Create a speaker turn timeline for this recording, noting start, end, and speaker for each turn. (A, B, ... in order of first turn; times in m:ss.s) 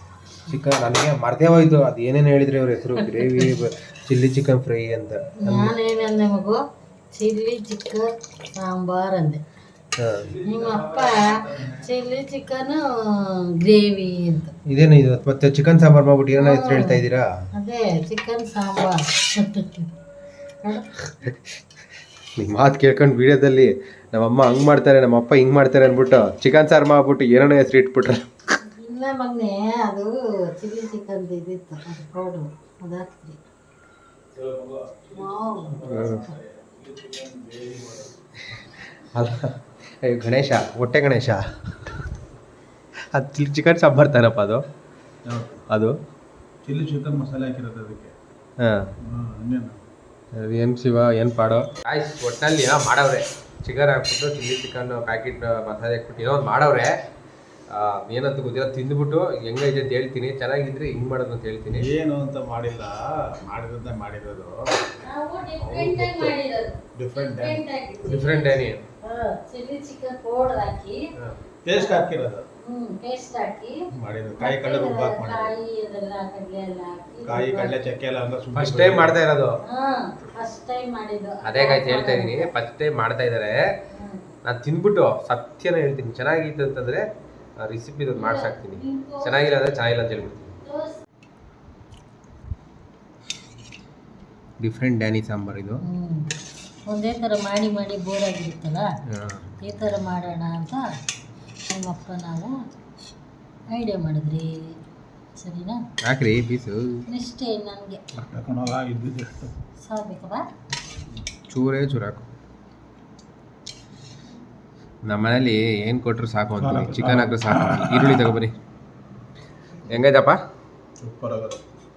0:00.4-0:05.7 A
0:03.1-0:03.5 B
0:05.4-0:06.6 B
0:07.1-0:09.4 B
0:10.0-0:10.4 A
0:10.4-0:14.5 B
0:10.4-0:11.7 C
0:14.6-0:17.4 A
0:16.4-0:17.0 B
0:17.6-0:19.9 B
0:21.0-0:21.4 A
0:22.4-0:28.2 A
0:28.6-0:33.4 B
0:34.4-0:38.2 C
0:35.1-0:36.4 B
0:35.9-0:36.3 A
0:38.5-0:42.0 A
0:43.1-0:44.6 A
0:45.2-0:45.6 C
0:45.7-0:46.0 A
0:46.6-0:48.1 C
0:48.6-0:48.9 A
0:49.0-0:49.8 C
0:50.3-0:57.0 A
0:57.7-1:01.9 A
1:01.7-1:04.9 C
1:05.0-1:11.1 B
1:05.6-1:06.4 C
1:06.9-1:07.6 C
1:08.0-1:08.8 A
1:11.6-1:12.5 C
1:11.7-1:13.8 B
1:13.9-1:15.5 C
1:14.4-1:17.8 B
1:17.2-1:19.2 C
1:18.5-1:19.6 A
1:19.6-1:22.5 B
1:21.4-1:23.6 A
1:23.9-1:24.2 B
1:24.4-1:27.0 A
1:27.6-1:30.5 A
1:28.1-1:29.3 B
1:30.6-1:31.0 B
1:34.6-1:35.8 A
1:35.9-1:36.3 B
1:36.9-1:38.9 B
1:39.1-1:39.6 A
1:39.6-1:40.9 B
1:41.7-1:42.6 B
1:43.7-1:44.8 B
1:45.4-1:45.8 B
1:46.0-1:47.0 A
1:47.1-1:48.0 B
1:48.1-1:49.5 C
1:49.8-1:50.5 B
1:51.5-1:52.2 A
1:55.0-1:58.5 A
1:56.6-1:58.2 C
1:59.9-2:00.4 A
2:01.0-2:01.6 C